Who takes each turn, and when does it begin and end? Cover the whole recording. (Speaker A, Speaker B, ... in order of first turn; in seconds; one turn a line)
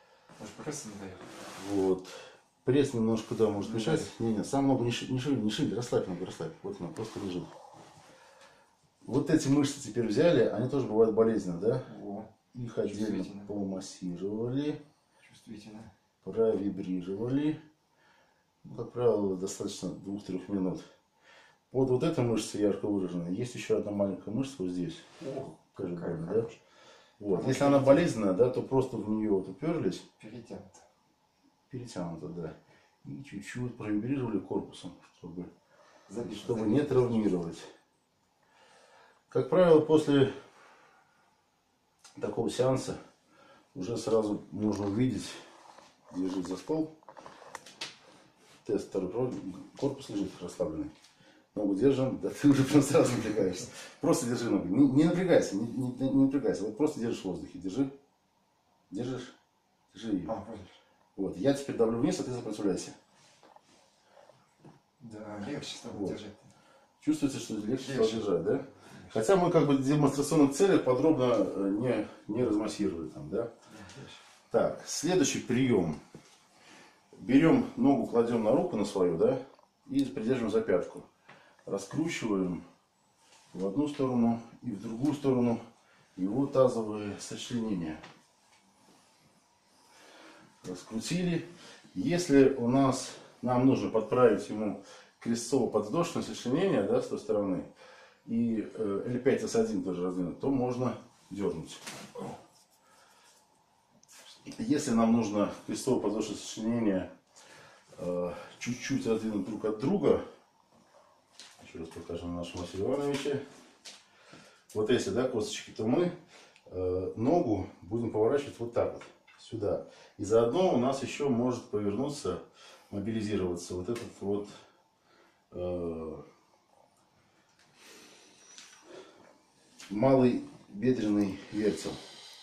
Speaker A: 0.4-1.3
Speaker B: 1.6-7.5
Speaker A: 3.6-4.1
Speaker B: 9.0-11.9
Speaker A: 11.8-12.3
Speaker B: 12.5-14.8
Speaker A: 12.8-13.5
Speaker A: 15.2-15.9
Speaker B: 16.2-17.6
Speaker B: 18.6-20.9
Speaker B: 21.7-25.1
Speaker A: 25.2-26.6
Speaker B: 25.8-26.5
Speaker B: 27.2-30.0
Speaker A: 27.3-28.1
Speaker A: 30.2-30.9
Speaker B: 31.7-35.5
Speaker A: 36.1-37.4
Speaker B: 36.2-37.7
Speaker B: 39.3-40.3
Speaker B: 42.2-43.0
Speaker B: 43.7-45.4
Speaker B: 46.1-46.9
Speaker B: 48.6-50.9
Speaker B: 51.5-57.9
Speaker B: 58.9-59.3
Speaker B: 59.9-60.3
Speaker A: 60.3-60.8
Speaker B: 61.2-63.0
Speaker A: 65.0-66.5
Speaker B: 65.9-66.2
Speaker B: 67.0-73.5
Speaker A: 67.8-68.3
Speaker A: 73.7-74.2
Speaker B: 74.5-76.0
Speaker B: 77.2-81.1
Speaker B: 81.7-82.6
Speaker B: 83.5-85.6
Speaker B: 86.2-88.0
Speaker B: 90.6-97.7
Speaker B: 98.3-101.8
Speaker B: 104.5-107.1
Speaker B: 108.0-110.2
Speaker B: 111.6-113.4
Speaker B: 114.7-116.2
Speaker B: 116.7-124.5
Speaker B: 125.5-126.2
Speaker B: 129.9-132.0